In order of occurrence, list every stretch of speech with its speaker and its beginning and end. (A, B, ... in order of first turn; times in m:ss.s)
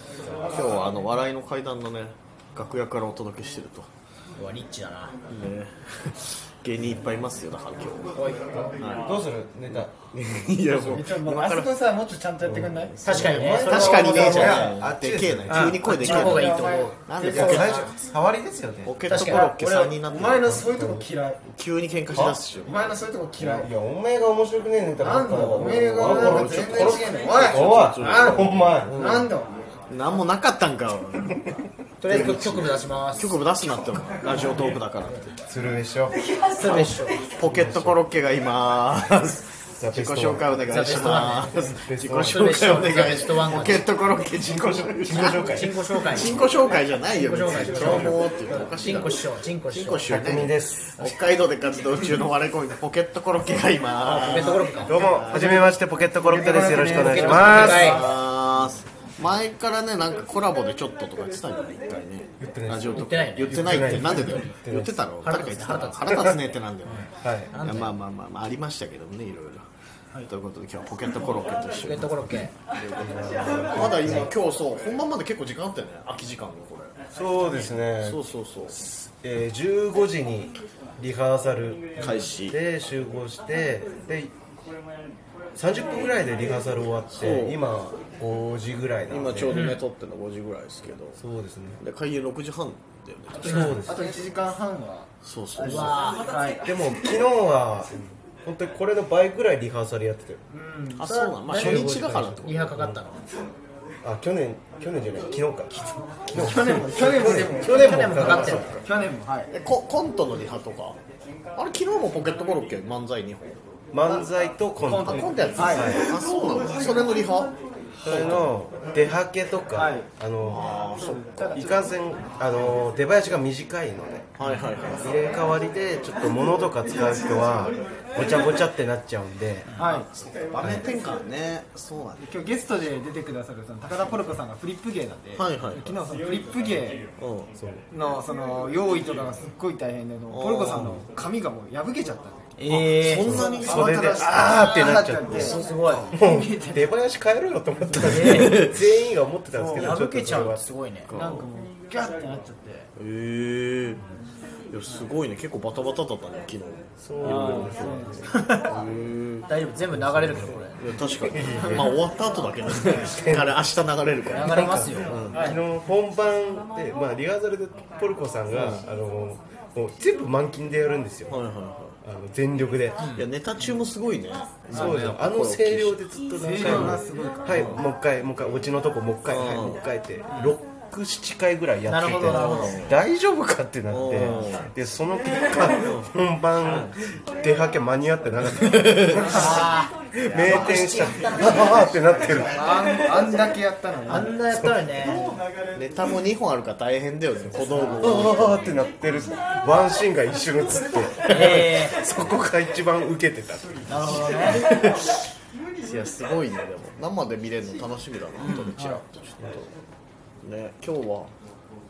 0:00.4-0:03.9 A
0:04.4-0:05.2 B
0:05.3-0:08.2 A
0:08.1-0:08.8 B
0:08.8-0:09.1 A
0:09.0-0:09.9 C
0:09.7-0:11.8 A
0:10.8-0:13.3 D
0:12.4-0:16.0 C
0:13.0-0:14.7 B
0:13.0-0:17.9 A
0:14.4-0:14.7 D
0:15.5-0:17.2 B
0:15.9-0:17.8 D
0:17.2-0:19.0 C
0:18.8-0:20.6 A
0:19.1-0:19.5 B
0:19.2-0:21.4 D
0:20.4-0:21.1 C
0:21.5-0:22.9 A
0:22.1-0:22.4 C
0:22.6-0:23.7 D
0:23.4-0:28.9 C
0:25.0-0:27.8 D
0:26.0-0:29.3 A
0:28.9-0:29.6 D
0:29.9-0:31.4 A
0:32.0-0:33.4 B
0:32.1-0:35.3 A
0:35.5-0:38.0 C
0:36.5-0:37.2 B
0:37.4-0:55.8 A
0:39.8-0:40.5 C
0:40.6-0:43.9 B
0:41.8-0:42.4 C
0:45.0-0:45.8 C
0:45.3-0:46.4 B
0:47.0-0:50.3 B
0:47.8-0:48.2 C
0:50.1-0:51.2 C
0:54.1-0:55.0 B
0:54.8-0:58.0 C
0:56.2-0:58.1 D
0:57.0-0:58.1 B
0:57.2-1:07.1 A
1:02.4-1:05.0 C
1:02.9-1:04.6 B
1:05.2-1:06.3 B
1:07.2-1:07.5 C
1:07.5-1:08.0 B
1:07.6-1:09.6 A
1:10.2-1:12.4 A
1:11.8-1:12.5 B
1:12.8-1:14.3 C
1:13.6-1:17.0 A
1:17.1-1:24.3 C
1:18.0-1:18.8 A
1:22.0-1:22.6 A
1:25.6-1:29.6 C
1:27.2-1:27.6 A
1:29.1-1:31.2 A
1:29.5-1:29.8 B
1:31.2-1:31.8 C
1:31.8-1:33.9 A
1:33.4-1:35.1 D
1:33.4-1:34.0 C
1:33.5-1:33.8 B
1:35.2-1:36.0 A
1:35.6-1:36.3 B
1:35.7-1:36.7 D
1:36.6-1:40.4 C
1:40.5-1:41.1 D
1:41.0-1:42.7 A
1:41.0-1:43.2 B
1:41.5-1:43.0 C
1:44.0-1:48.7 C
1:46.3-1:49.5 D
1:47.7-1:48.8 B
1:48.1-1:48.8 A
1:49.5-1:51.0 A
1:51.6-1:53.6 A
1:53.9-1:56.1 C
1:54.8-1:56.0 D
1:54.8-1:57.5 A
1:58.0-1:58.4 D
1:58.0-2:00.7 C
1:59.8-2:00.1 D
2:00.4-2:01.6 A
2:01.1-2:01.7 D
2:01.5-2:04.3 C
2:04.4-2:05.1 A
2:05.0-2:09.7 C
2:09.7-2:10.0 B
2:09.8-2:10.1 D
2:10.2-2:12.2 A
2:12.2-2:17.0 D
2:15.4-2:16.0 A
2:17.2-2:17.5 A
2:17.6-2:17.8 C
2:17.9-2:22.5 D
2:20.3-2:21.0 A
2:22.6-2:23.4 B
2:22.7-2:24.0 A
2:23.3-2:25.6 D
2:23.3-2:30.7 C
2:25.3-2:26.1 A
2:25.4-2:26.2 B
2:26.2-2:26.8 D
2:28.0-2:28.8 A
2:28.1-2:28.7 B
2:29.5-2:30.0 D
2:29.8-2:31.1 B
2:31.1-2:31.5 A
2:31.1-2:32.9 D
2:33.0-2:34.0 A
2:34.7-2:38.0 A
2:37.0-2:38.2 C
2:37.2-2:38.4 D
2:38.4-2:38.6 B
2:38.6-2:39.5 A
2:39.5-2:40.8 B
2:39.9-2:40.6 C
2:40.8-2:45.6 A
2:41.3-2:42.0 C
2:42.9-2:43.6 C
2:44.3-2:45.5 B
2:44.4-2:51.4 C
2:48.5-2:48.8 A
2:51.3-2:52.0 A
2:52.0-2:53.0 C
2:53.0-2:53.3 B
2:53.2-2:56.0 A
2:54.7-3:09.7 C
2:54.7-2:55.1 D
2:56.4-2:57.7 D
2:56.6-2:57.0 A
2:57.5-2:57.8 A
2:59.3-2:59.8 A
3:00.3-3:00.6 B
3:01.8-3:02.8 B
3:02.3-3:03.0 A
3:03.9-3:04.7 A
3:06.6-3:07.0 A
3:08.6-3:09.4 A
3:09.3-3:09.9 B
3:10.2-3:11.1 A
3:10.3-3:12.5 C
3:10.4-3:12.8 B
3:12.5-3:14.4 D
3:14.1-3:15.3 B
3:15.8-3:19.0 A
3:17.7-3:18.1 D
3:18.0-3:24.3 C
3:21.2-3:22.0 B
3:23.9-3:24.7 B
3:25.8-3:29.7 A
3:28.4-3:28.7 B
3:28.8-3:29.0 D
3:30.4-3:31.3 A